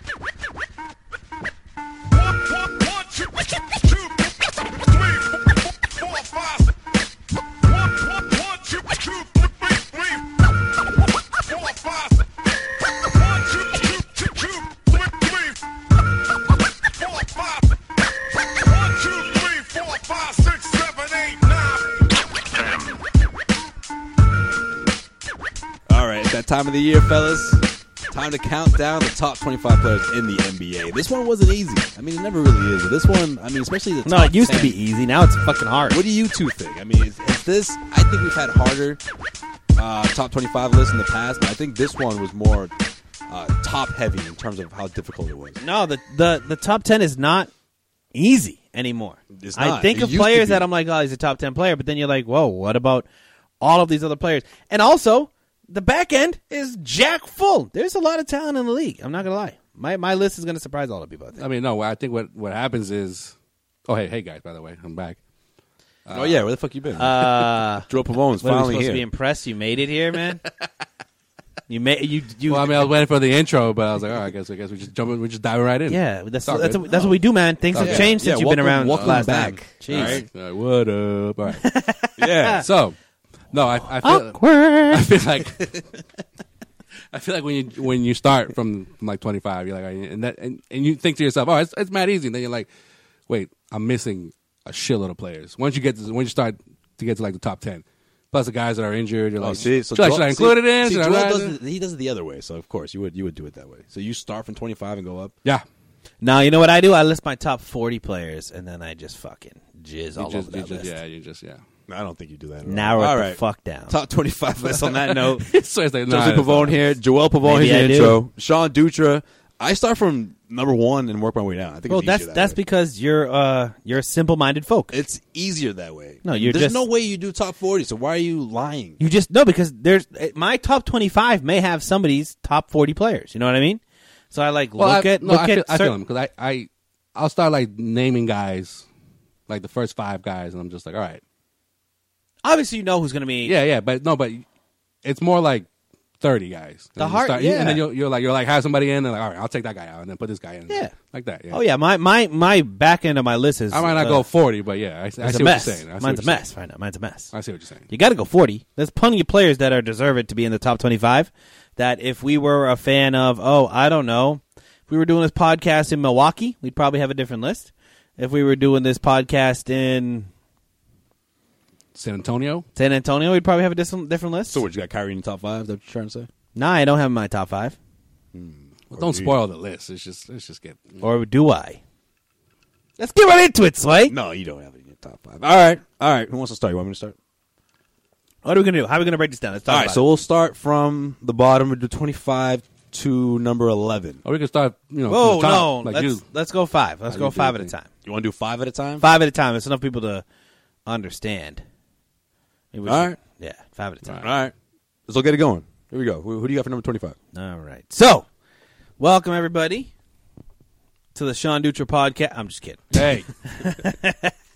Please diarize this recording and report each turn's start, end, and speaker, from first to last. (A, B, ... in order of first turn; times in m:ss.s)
0:02.0-0:06.7 A
0:07.5-0:10.5 A
0:11.3-0:12.3 A
0:12.8-0:15.6 A
0:16.8-0:17.8 A
0:18.4-0:22.0 A
0:25.9-0:34.8 B
0:34.0-0:36.0 C
0:35.9-0:39.0 B
0:39.8-0:42.7 B
0:43.3-0:45.6 B
0:45.6-0:47.5 C
0:48.1-0:53.1 C
0:49.3-0:50.7 B
0:53.6-1:01.4 C
1:01.4-1:03.3 D
1:03.9-1:05.2 D
1:06.1-1:06.4 D
1:06.1-1:09.0 B
1:07.0-1:07.9 C
1:08.4-1:10.4 C
1:11.7-1:12.8 C
1:12.5-1:16.9 D
1:15.9-1:20.2 C
1:17.7-1:18.2 D
1:17.8-1:20.2 B
1:18.9-1:21.6 D
1:21.6-1:22.6 C
1:22.2-1:22.7 B
1:22.6-1:23.0 D
1:23.5-1:25.8 D
1:24.0-1:25.0 C
1:27.1-1:32.7 D
1:33.3-1:41.6 D
1:39.4-1:45.3 B
1:46.2-1:51.0 C
1:50.2-1:51.6 D
1:51.9-1:55.5 B
1:52.7-1:54.0 C
1:54.8-1:56.9 D
1:56.1-2:02.6 B
1:57.4-1:58.2 C
2:01.9-2:04.9 C
2:04.9-2:09.0 B
2:06.2-2:06.8 C
2:09.0-2:15.9 C
2:14.8-2:18.8 D
2:19.5-2:21.2 D
2:22.4-2:23.5 C
2:23.4-2:24.4 D
2:25.0-2:25.7 D
2:26.2-2:31.6 D
2:27.0-2:27.9 C
2:31.5-2:34.2 C
2:33.7-2:36.4 D
2:35.2-2:37.3 C
2:37.3-2:37.9 D
2:37.9-2:50.3 C
2:51.9-2:52.6 D
2:52.8-2:54.6 C
2:54.5-2:56.3 B
2:56.6-2:57.8 C
2:58.3-2:59.4 B
2:58.9-3:01.0 D
3:01.0-3:01.8 C
3:03.0-3:04.1 C
3:04.1-3:07.2 B
3:08.4-3:10.0 C
3:09.7-3:14.2 B
3:14.2-3:16.2 D
3:15.1-3:17.9 C
3:17.1-3:17.7 D
3:18.0-3:19.1 B
3:19.0-3:20.2 C
3:20.9-3:21.6 C
3:22.7-3:24.2 C
3:22.9-3:23.2 B
3:24.2-3:24.5 B
3:25.1-3:27.2 B
3:27.3-3:28.3 C
3:29.0-3:29.9 C
3:31.1-3:34.3 C
3:32.9-3:33.3 D